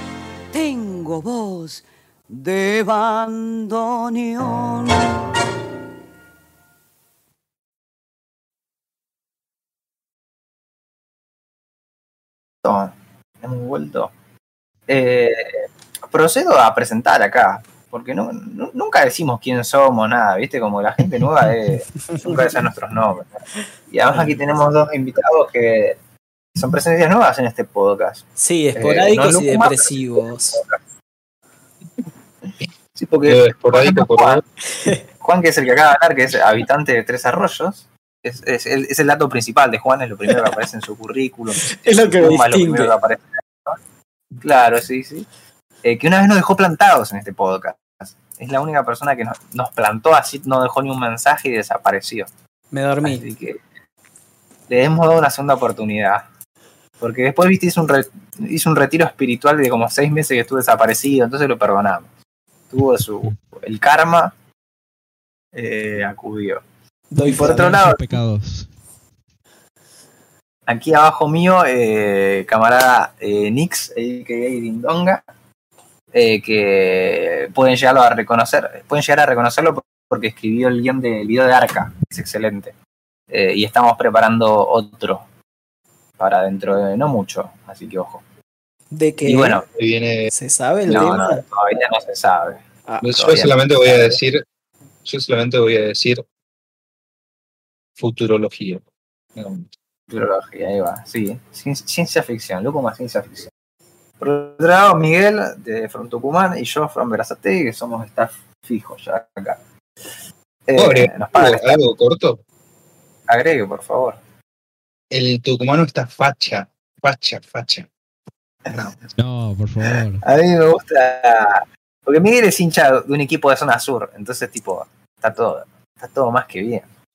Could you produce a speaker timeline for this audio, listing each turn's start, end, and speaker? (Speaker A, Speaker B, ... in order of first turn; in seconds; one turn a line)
Speaker A: 0.5-5.3
Speaker B: 12.6-14.1
Speaker B: 14.9-26.0
Speaker C: 22.1-22.5
Speaker B: 26.6-28.2
Speaker C: 28.4-30.6
Speaker B: 28.8-30.8
Speaker B: 33.0-34.4
Speaker D: 33.3-34.4
Speaker B: 35.2-43.8
Speaker C: 41.7-42.9
Speaker B: 44.4-45.3
Speaker B: 45.8-52.3
Speaker C: 52.7-53.2
Speaker B: 53.0-53.6
Speaker B: 54.7-56.2
Speaker B: 57.0-62.1
Speaker B: 62.7-64.3
Speaker B: 65.5-66.6
Speaker C: 67.1-67.7
Speaker E: 67.2-68.7
Speaker B: 67.2-68.0
Speaker B: 70.7-75.2
Speaker B: 76.1-82.7
Speaker B: 83.3-85.2
Speaker B: 86.2-88.2
Speaker C: 88.9-89.6
Speaker B: 89.2-89.7
Speaker D: 89.8-90.3
Speaker C: 90.3-91.4
Speaker B: 90.9-94.2
Speaker D: 93.0-94.4
Speaker D: 95.0-96.2
Speaker D: 98.0-98.8
Speaker D: 99.4-99.7
Speaker B: 100.1-103.5
Speaker B: 104.2-109.6
Speaker B: 110.7-111.8
Speaker D: 110.8-112.4
Speaker B: 113.3-114.2
Speaker D: 115.1-117.9
Speaker E: 119.2-120.2
Speaker B: 120.2-126.9